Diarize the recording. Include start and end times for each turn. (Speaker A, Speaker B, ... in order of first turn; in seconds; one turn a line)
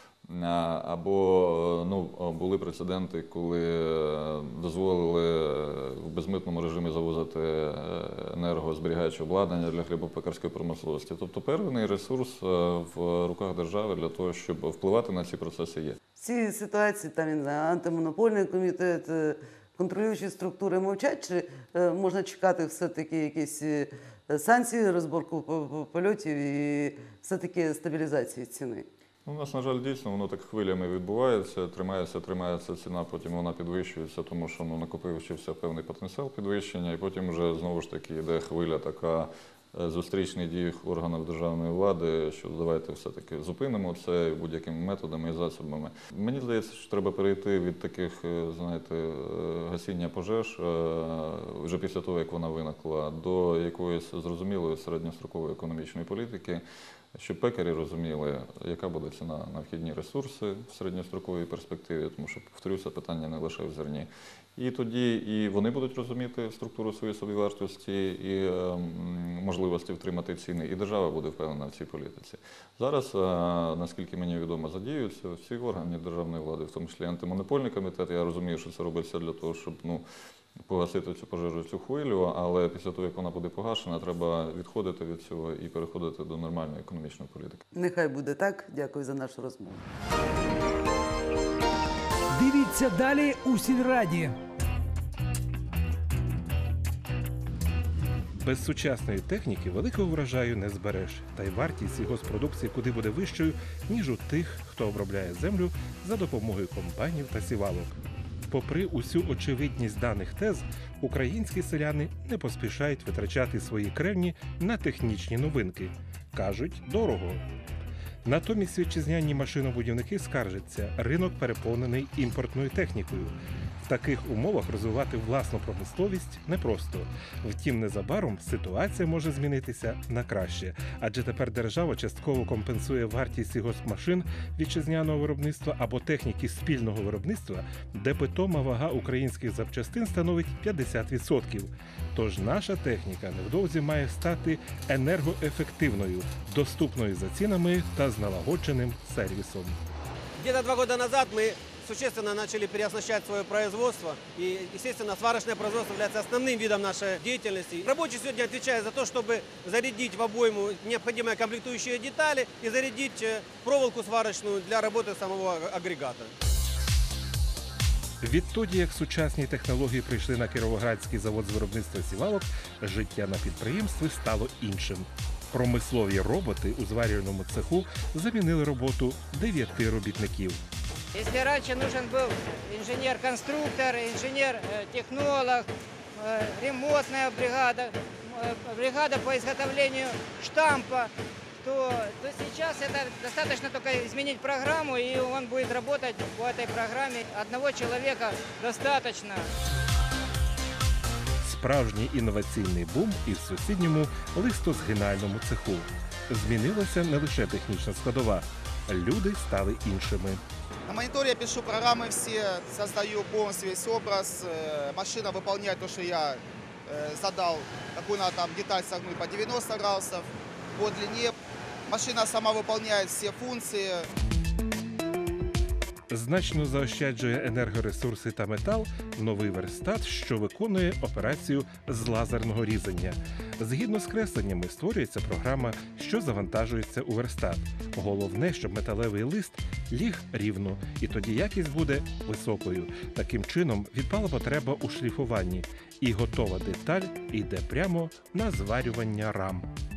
Speaker A: 0.3-16.0
Speaker B: 16.2-28.9
Speaker A: 29.2-56.6
Speaker A: 57.2-80.0
Speaker A: 80.7-87.6
Speaker B: 87.7-89.8
Speaker C: 92.3-94.3
Speaker D: 98.4-108.0
Speaker D: 108.5-117.4
Speaker D: 118.2-149.8
Speaker E: 150.4-166.3
Speaker D: 168.2-180.6
Speaker F: 181.1-199.5
Speaker D: 201.4-210.4
Speaker G: 210.9-216.4
Speaker G: 216.9-220.3
Speaker G: 220.8-221.3
Speaker G: 221.9-224.0
Speaker D: 226.1-249.7